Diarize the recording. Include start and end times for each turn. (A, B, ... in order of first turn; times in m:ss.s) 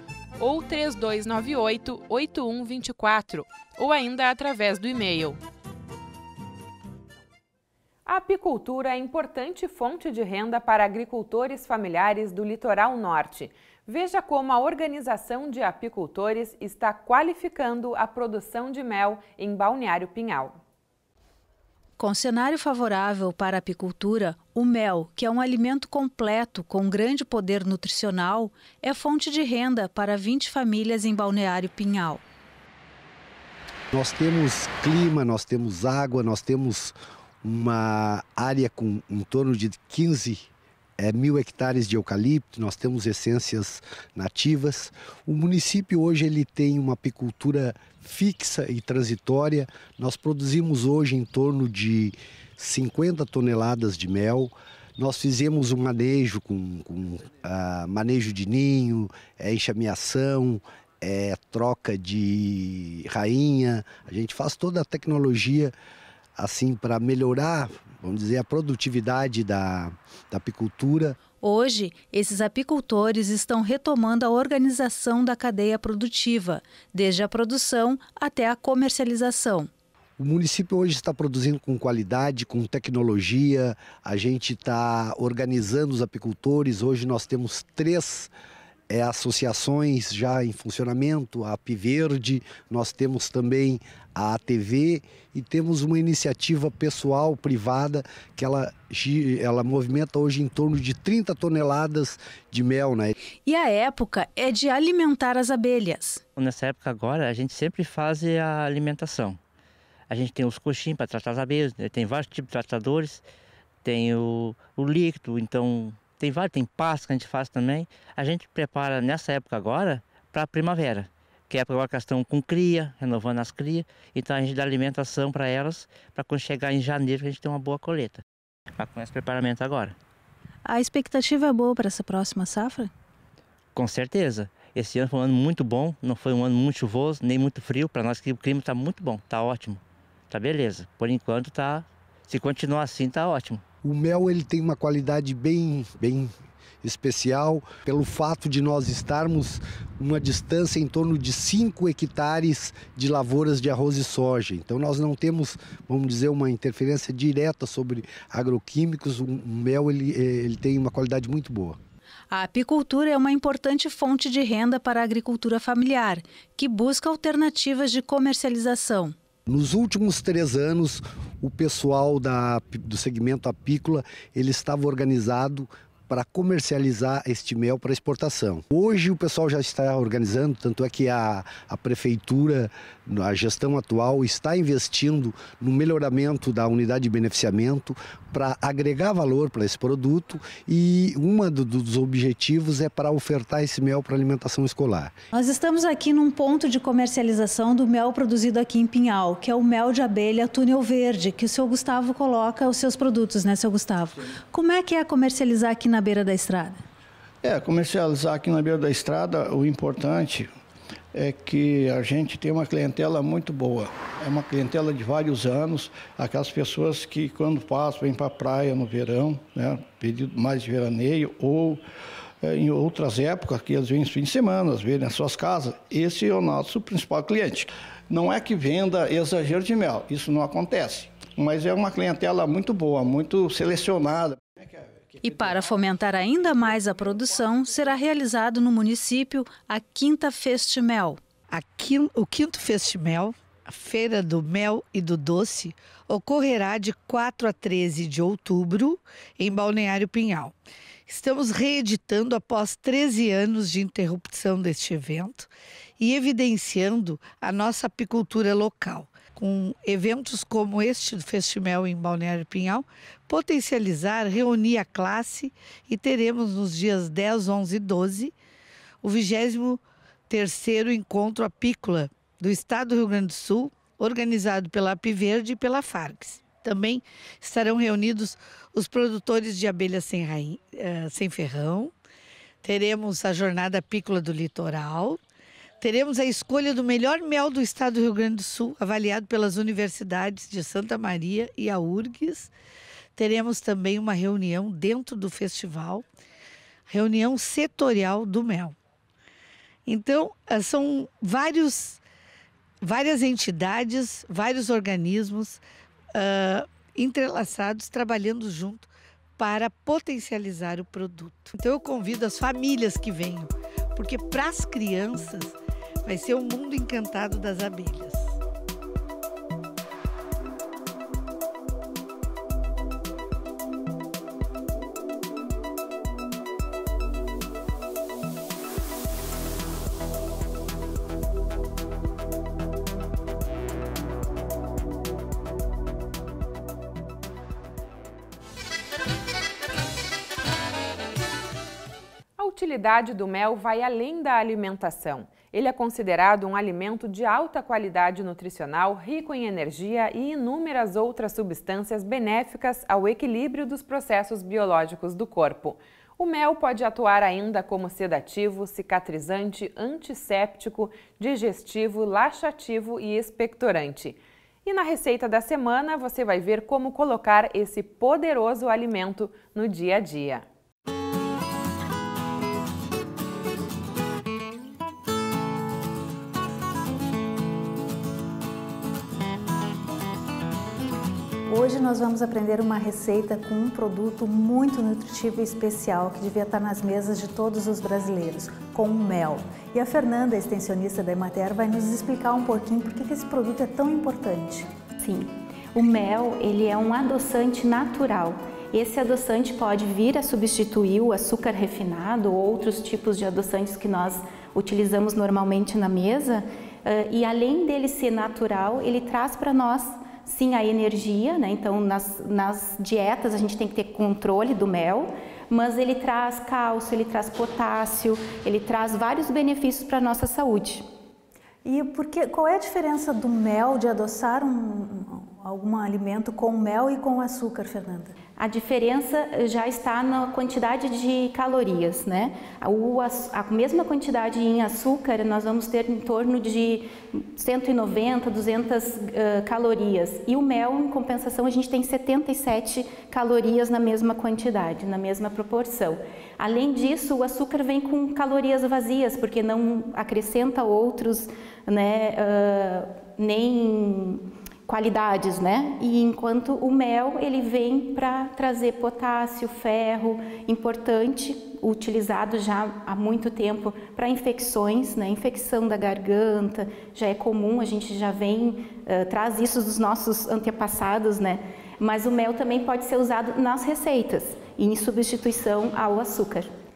0:00.4-0:05.4 A
0:08.0-0:20.6 A
0:22.0-0:32.2 B
0:33.9-0:40.5 C
0:41.0-1:05.7 C
1:06.4-1:11.2 C
1:11.4-1:19.7 B
1:20.2-1:28.3 C
1:28.9-1:43.1 C
1:43.4-1:46.2 B
1:46.4-1:49.4 D
1:50.1-1:53.2 D
1:53.8-2:08.2 D
2:08.8-2:10.0 D
2:10.6-2:12.9 B
2:13.7-2:23.6 D
2:23.8-2:26.3 C
2:26.8-2:41.8 C
2:42.3-2:49.1 B
2:49.5-3:15.1 C
3:15.3-3:26.8 B
3:27.4-3:30.5 E
3:31.1-3:41.8 E
3:42.4-3:55.6 E
3:55.2-4:01.2 B
4:01.5-4:10.5 F
4:11.1-4:28.3 F
4:29.0-4:41.9 F
4:42.6-4:45.2 F
4:45.8-4:52.5 F
4:53.2-4:56.0 F
4:56.9-4:58.7 F
4:59.8-5:02.0 F
5:02.8-5:05.6 F
5:06.1-5:18.3 F
5:42.4-6:10.4 A
6:21.5-6:34.7 B
6:35.0-7:00.8 G
7:01.6-7:08.1 B
7:08.4-7:56.5 G